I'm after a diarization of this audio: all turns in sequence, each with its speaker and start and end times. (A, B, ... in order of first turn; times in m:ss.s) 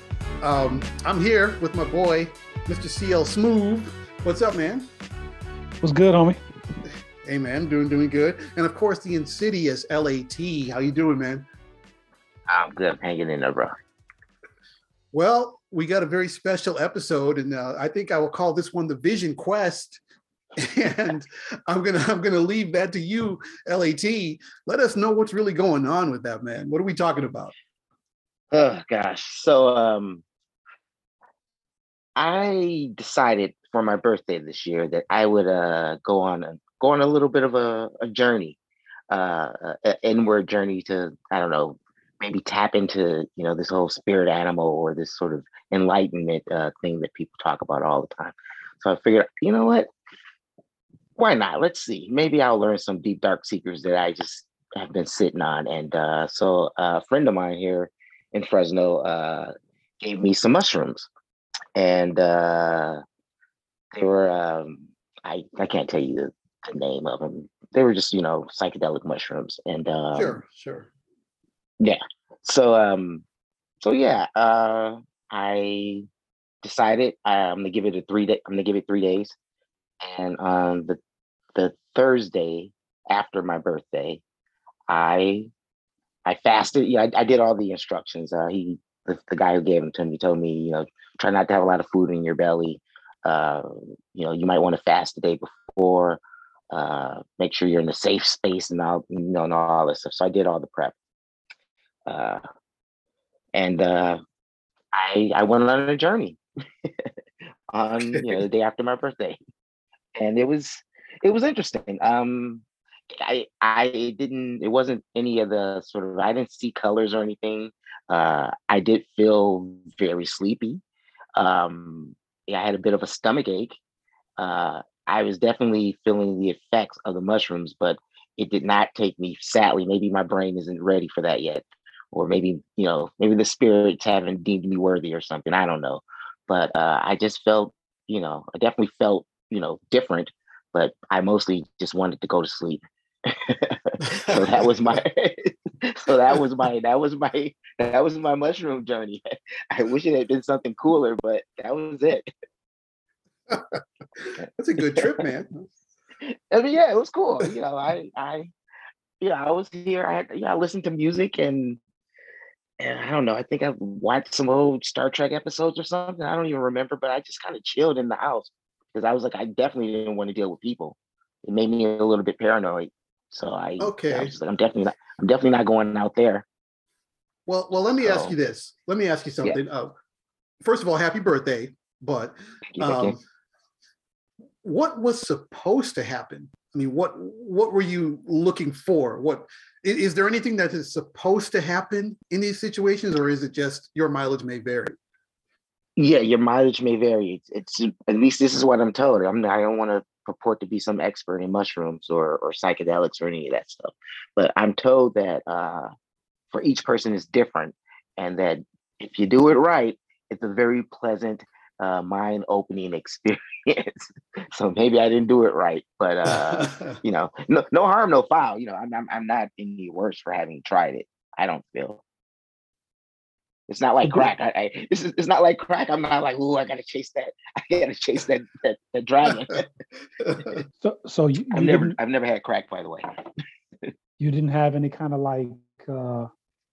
0:00.4-0:04.9 A
0:05.8-0:06.4 B
0:07.2-0:11.5 A
0:12.5-0:13.8 C
0:15.1-0:20.0 A
0:20.6-0:27.5 A
0:28.5-0:30.2 C
0:32.2-0:38.6 C
0:39.1-0:49.9 C
0:51.2-1:01.1 C
1:01.8-1:03.0 C
1:03.9-1:10.4 C
1:10.1-1:10.9 A
1:11.8-1:13.2 C
1:13.8-1:16.1 C
1:16.6-1:19.3 C
1:20.0-1:21.0 C
1:21.6-1:24.2 C
1:24.9-1:25.5 C
1:26.2-1:36.2 C
1:36.7-1:41.0 C
1:42.1-1:42.4 C
1:43.5-1:44.2 C
1:44.9-1:46.4 C
1:47.7-1:49.4 C
1:48.1-1:48.4 A
1:50.2-2:00.8 C
2:01.4-2:03.7 C
2:04.4-2:32.3 C
2:24.1-2:24.7 A
2:33.5-2:35.6 A
2:34.4-2:35.1 C
2:36.2-2:38.5 C
2:39.2-2:41.8 C
2:42.8-2:56.4 C
2:53.8-2:54.3 A
2:57.5-2:59.9 A
2:58.0-2:58.3 C
3:00.6-3:03.2 A
3:02.7-3:03.1 C
3:04.6-3:15.0 A
3:16.0-3:25.9 C
3:26.5-3:42.0 C
3:36.2-3:36.9 A
3:43.7-3:49.7 C
3:50.2-3:50.6 A
3:50.8-3:52.0 B
3:51.5-3:53.1 C
3:54.2-3:56.3 B